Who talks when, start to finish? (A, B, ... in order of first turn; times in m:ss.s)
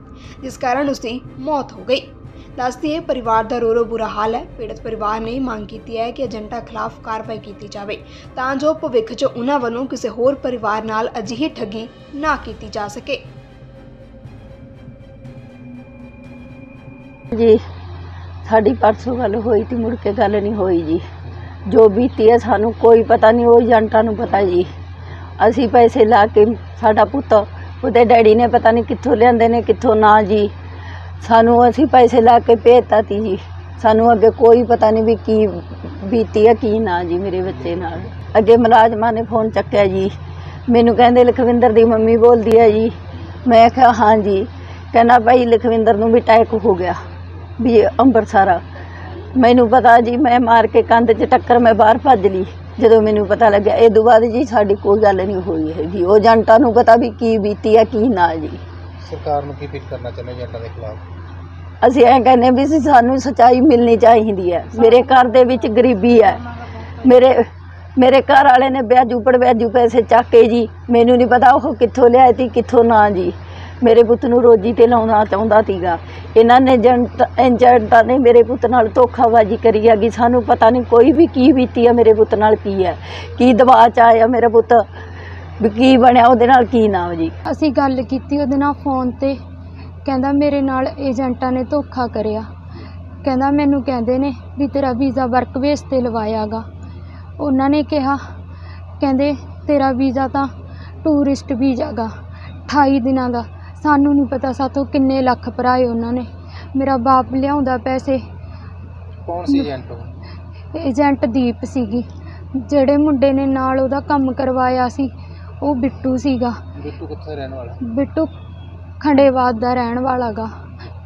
0:00.4-0:02.0 A
0:02.6-0:13.2 A
0:17.3-0:17.6 B
0:18.4-0:21.0 B
0:21.7-0:24.7 B
0:25.4-0:30.5 B
0:31.2-0:40.1 B
0:40.7-0:47.0 B
0:47.6-0:48.6 B
0:49.4-0:58.6 B
0:59.0-1:01.0 C
1:01.8-1:06.5 B
1:07.0-1:24.8 B
1:25.6-1:27.3 B
1:27.4-1:29.4 D
1:30.0-1:32.5 D
1:33.2-1:36.6 D
1:37.4-1:38.2 D
1:39.0-1:40.5 D
1:41.0-1:42.1 D
1:42.7-1:48.2 D
1:49.2-1:50.1 C
1:50.7-1:56.6 D
1:56.8-1:57.8 C
1:57.8-1:58.3 D
1:59.0-2:00.5 D